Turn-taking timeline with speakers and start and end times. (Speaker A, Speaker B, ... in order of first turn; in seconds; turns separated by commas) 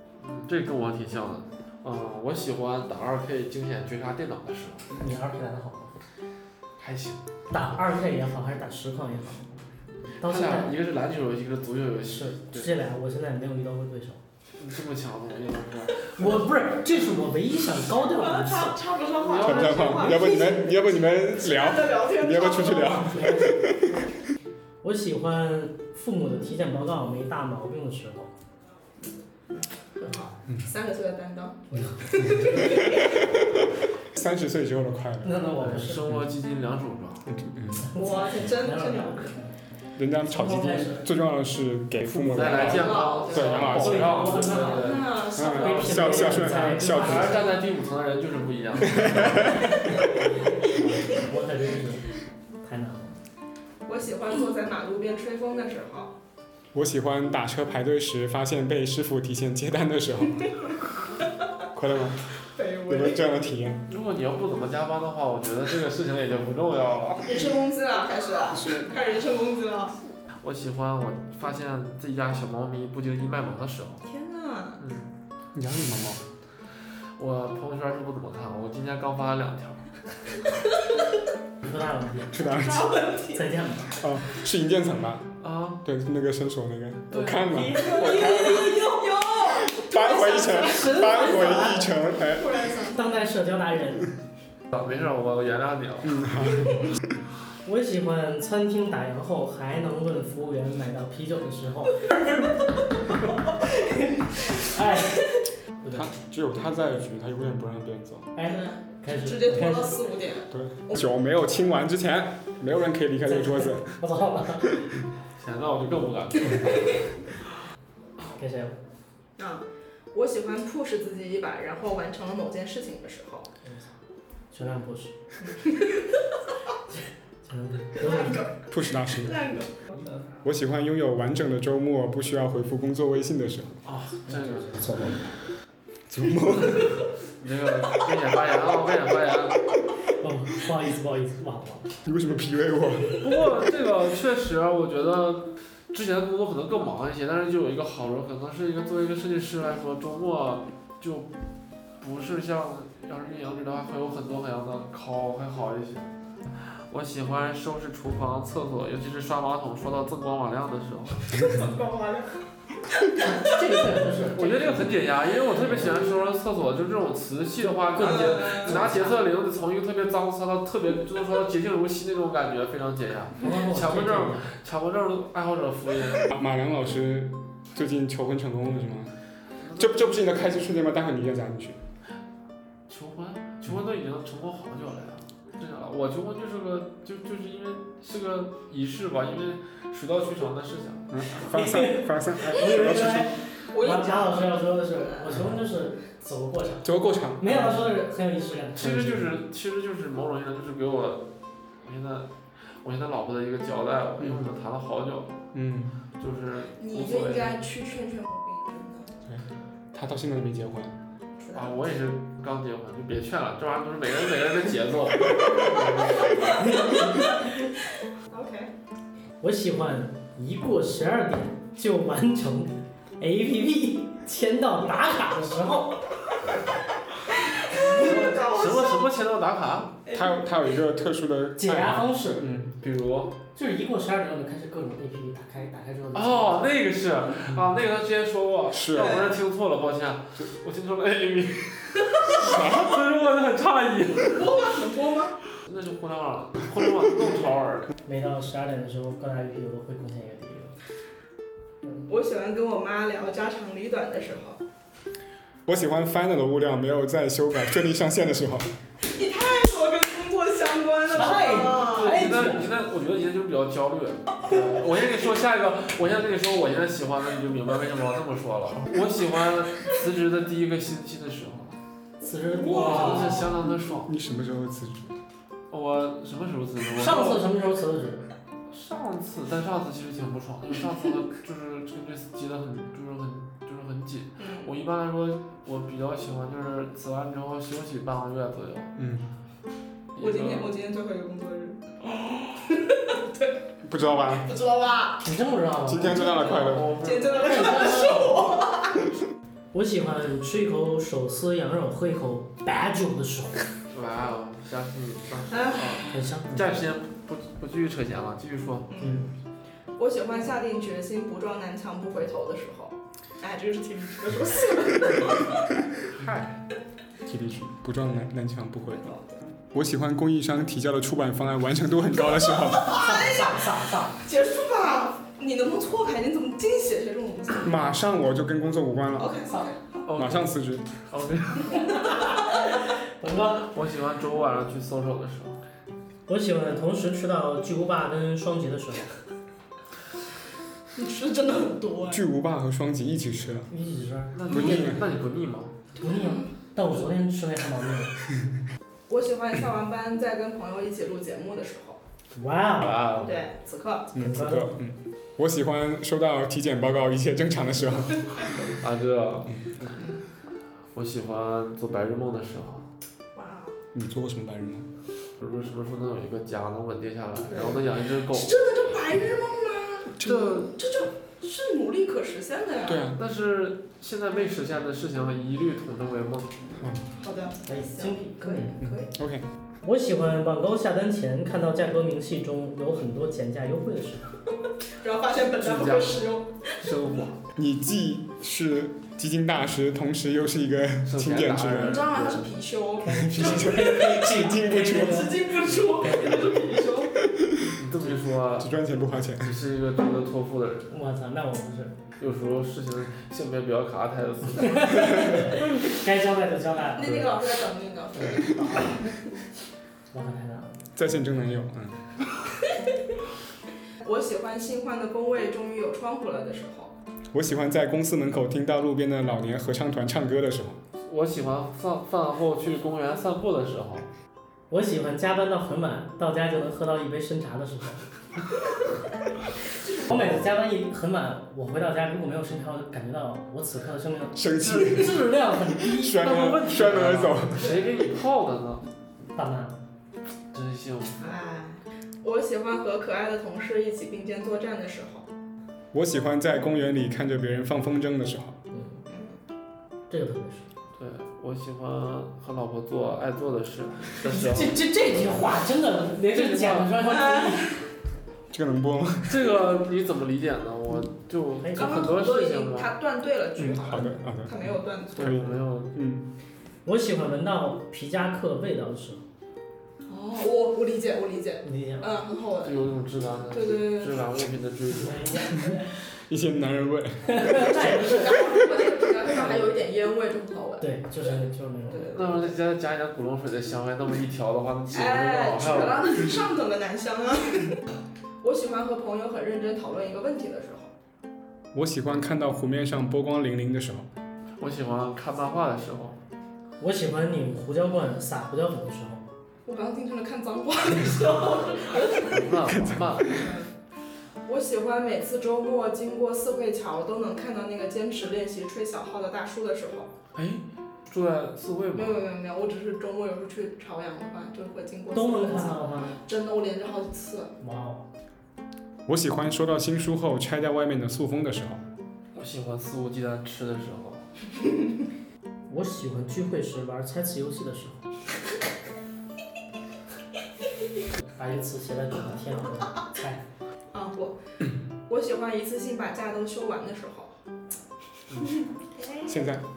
Speaker A: 0.2-5.0, Speaker B: 4.9-6.0, Speaker A: 6.8-7.2, Speaker B: 7.5-9.6, Speaker A: 10.2-12.7, Speaker B: 10.2-10.7, Speaker B: 12.1-14.2, Speaker A: 14.6-16.4, Speaker B: 16.2-18.8, Speaker C: 18.1-23.2, Speaker A: 19.2-20.4, Speaker D: 19.4-23.9, Speaker B: 23.0-23.7, Speaker B: 24.8-28.3, Speaker B: 30.0-30.3, Speaker C: 30.6-33.3, Speaker D: 32.5-33.0, Speaker D: 34.1-35.4, Speaker B: 35.2-36.1, Speaker A: 35.6-37.2, Speaker D: 37.2-37.9, Speaker B: 37.8-39.6, Speaker C: 38.0-39.4, Speaker D: 40.0-44.4, Speaker B: 40.3-41.0, Speaker A: 42.0-45.2, Speaker C: 42.4-43.7, Speaker B: 43.6-47.5, Speaker C: 44.4-46.5, Speaker D: 45.3-47.5, Speaker A: 46.5-49.6, Speaker D: 48.9-49.9, Speaker B: 49.7-52.1, Speaker B: 52.6-53.2, Speaker C: 53.9-56.1, Speaker D: 56.7-60.5, Speaker D: 61.7-62.3, Speaker C: 62.5-63.3, Speaker D: 62.9-63.8, Speaker A: 63.9-67.5, Speaker C: 67.2-70.0, Speaker A: 70.4-74.0, Speaker C: 74.0-74.8, Speaker A: 74.8-75.1, Speaker D: 75.5-76.2, Speaker A: 77.2-79.9, Speaker B: 81.6-82.4, Speaker D: 82.3-83.0, Speaker C: 82.3-83.5, Speaker B: 83.3-84.0, Speaker D: 84.0-88.8, Speaker A: 85.4-85.8, Speaker A: 87.1-88.6, Speaker B: 87.2-88.2, Speaker C: 87.7-93.0, Speaker D: 89.6-92.7, Speaker B: 90.9-91.4, Speaker B: 92.9-94.1, Speaker A: 94.7-96.2, Speaker D: 96.0-97.2, Speaker B: 97.6-102.5, Speaker B: 103.7-105.3, Speaker B: 105.8-106.1, Speaker D: 105.9-108.3, Speaker B: 108.3-110.0, Speaker C: 108.4-111.0, Speaker D: 110.5-113.9, Speaker B: 113.3-114.8, Speaker A: 115.4-117.1, Speaker B: 118.3-118.8, Speaker C: 119.4-123.5, Speaker B: 123.6-123.9, Speaker B: 124.5-125.1, Speaker C: 125.4-126.2, Speaker B: 127.4-128.4, Speaker C: 128.0-130.1, Speaker D: 128.7-129.4, Speaker D: 130.4-133.8, Speaker A: 133.8-134.8, Speaker B: 134.3-135.3, Speaker D: 136.1-137.0, Speaker A: 137.4-139.6, Speaker B: 140.2-141.8, Speaker D: 142.0-143.2, Speaker A: 143.2-151.3, Speaker A: 152.0-156.1, Speaker A: 156.9-161.4, Speaker C: 161.4-162.4, Speaker B: 163.2-165.9, Speaker A: 164.3-176.3, Speaker B: 167.8-169.2, Speaker C: 167.9-169.0, Speaker B: 173.4-174.5, Speaker D: 176.3-179.1, Speaker A: 179.6-180.6, Speaker D: 179.8-181.8, Speaker A: 182.9-191.1, Speaker D: 191.1-193.3, Speaker B: 191.4-196.9, Speaker C: 193.7-195.3, Speaker D: 196.8-197.9, Speaker B: 197.4-199.1, Speaker A: 198.8-201.3, Speaker D: 198.8-199.3, Speaker A: 201.8-202.3, Speaker A: 202.8-205.4, Speaker D: 204.2-204.5, Speaker D: 205.5-206.0, Speaker A: 206.2-207.6, Speaker C: 206.8-209.1, Speaker D: 209.9-210.9, Speaker C: 211.4-211.7, Speaker A: 211.5-216.6, Speaker D: 215.3-216.1, Speaker C: 215.7-217.3, Speaker B: 216.6-217.2, Speaker C: 218.3-218.7, Speaker B: 219.4-226.0, Speaker C: 227.6-229.1, Speaker A: 227.7-230.0, Speaker D: 230.1-232.7, Speaker B: 231.6-232.4, Speaker A: 232.8-233.3, Speaker B: 233.5-236.8, Speaker A: 236.1-244.5, Speaker D: 238.7-239.2, Speaker C: 238.9-239.3, Speaker D: 242.3-242.9, Speaker C: 244.2-245.4, Speaker A: 245.6-247.9, Speaker B: 248.0-250.7, Speaker C: 252.1-254.6, Speaker D: 255.7-258.7, Speaker C: 259.1-262.2, Speaker B: 261.1-262.7, Speaker A: 261.5-271.8, Speaker B: 272.2-273.5, Speaker C: 272.6-273.5, Speaker A: 272.7-274.1, Speaker D: 274.0-275.1, Speaker A: 275.7-277.4, Speaker B: 276.9-278.3, Speaker A: 278.7-288.9, Speaker C: 284.4-284.7, Speaker D: 288.9-289.3, Speaker A: 290.1-290.7, Speaker C: 290.2-293.6, Speaker D: 293.8-294.5, Speaker C: 294.3-295.2, Speaker B: 295.2-296.4, Speaker D: 295.8-297.0, Speaker A: 296.2-297.8, Speaker C: 296.3-299.1, Speaker B: 297.3-298.5, Speaker B: 299.7-303.6, Speaker A: 303.9-308.9, Speaker C: 305.5-306.1, Speaker B: 306.1-306.7, Speaker C: 308.9-309.2, Speaker B: 309.0-309.3, Speaker C: 310.0-315.7, Speaker A: 316.1-316.6, Speaker D: 317.2-319.1, Speaker C: 318.9-319.4, Speaker D: 319.7-323.1, Speaker C: 322.5-323.6, Speaker B: 322.9-324.2, Speaker C: 324.2-327.8, Speaker D: 327.6-329.4, Speaker C: 329.2-330.0, Speaker A: 330.0-330.5, Speaker D: 330.1-330.9, Speaker A: 331.0-331.9, Speaker B: 331.7-332.6, Speaker B: 333.2-333.7, Speaker A: 333.6-335.6, Speaker B: 336.3-339.1, Speaker C: 340.9-342.2, Speaker D: 342.1-343.7, Speaker B: 343.7-344.7, Speaker A: 344.3-345.7, Speaker D: 344.5-345.0, Speaker C: 346.0-346.5, Speaker B: 346.0-348.1, Speaker C: 349.1-352.0, Speaker B: 352.4-353.0, Speaker A: 352.8-353.4, Speaker C: 353.2-354.1, Speaker D: 354.1-358.5, Speaker B: 354.1-354.8, Speaker A: 358.7-359.6, Speaker D: 359.5-359.9, Speaker A: 360.9-362.9, Speaker C: 363.3-363.7, Speaker D: 363.9-364.9, Speaker A: 365.4-368.5, Speaker C: 367.5-373.1, Speaker A: 370.2-370.6, Speaker D: 372.8-373.2, Speaker A: 373.1-376.8, Speaker D: 376.8-377.1, Speaker C: 377.2-379.1, Speaker B: 377.6-378.7, Speaker D: 378.8-379.5, Speaker B: 379.8-384.3, Speaker C: 385.0-386.7, Speaker A: 385.6-386.2, Speaker A: 386.8-387.4, Speaker D: 387.6-392.1, Speaker A: 391.1-392.6, Speaker C: 391.8-397.2, Speaker B: 393.0-395.4, Speaker D: 393.1-395.5, Speaker B: 396.0-396.5, Speaker D: 397.3-397.8, Speaker A: 397.8-398.7, Speaker D: 398.6-399.6, Speaker A: 399.4-400.9, Speaker B: 400.9-402.0, Speaker A: 402.2-405.7, Speaker B: 404.6-407.3, Speaker C: 406.9-409.1, Speaker A: 408.1-408.4, Speaker B: 410.1-410.8, Speaker D: 410.9-412.2, Speaker C: 414.0-416.9, Speaker D: 417.3-420.8, Speaker A: 421.0-424.1, Speaker B: 424.7-428.0, Speaker B: 429.9-436.6, Speaker D: 434.3-435.2, Speaker D: 435.8-437.7, Speaker A: 436.2-438.9, Speaker B: 439.4-439.8, Speaker A: 440.5-441.2, Speaker C: 441.2-445.3, Speaker D: 445.9-448.6, Speaker B: 448.7-449.0, Speaker C: 449.1-449.4, Speaker B: 450.1-450.7, Speaker A: 450.9-454.9, Speaker B: 454.2-457.7, Speaker A: 456.3-457.1, Speaker C: 457.0-457.7, Speaker D: 458.5-459.4, Speaker A: 459.2-462.9, Speaker B: 461.6-462.1, Speaker C: 461.7-465.4, Speaker D: 463.6-464.6, Speaker A: 465.1-465.9, Speaker D: 465.1-466.2, Speaker B: 466.8-469.2, Speaker C: 470.1-472.9, Speaker B: 471.6-472.1, Speaker A: 472.6-475.4, Speaker C: 473.5-474.2, Speaker B: 475.0-475.8, Speaker D: 475.6-478.0, Speaker B: 477.3-478.4, Speaker C: 477.7-482.6, Speaker A: 479.3-479.7, Speaker B: 480.8-482.1, Speaker A: 482.1-486.4, Speaker C: 484.9-487.8, Speaker C: 488.4-490.9, Speaker D: 491.7-494.1, Speaker A: 494.6-496.2, Speaker B: 496.8-499.2, Speaker C: 499.6-502.5, Speaker A: 502.1-503.5, Speaker D: 502.7-503.4, Speaker C: 503.3-503.7, Speaker C: 504.4-510.1, Speaker A: 510.3-512.2, Speaker C: 511.9-517.5, Speaker B: 515.1-516.2, Speaker B: 517.6-518.0, Speaker D: 519.0-521.8, Speaker A: 522.3-524.2, Speaker B: 525.7-528.0, Speaker B: 531.2-533.4, Speaker C: 533.9-534.4, Speaker C: 535.1-537.3, Speaker A: 538.3-538.5, Speaker C: 538.4-539.3, Speaker D: 539.2-539.6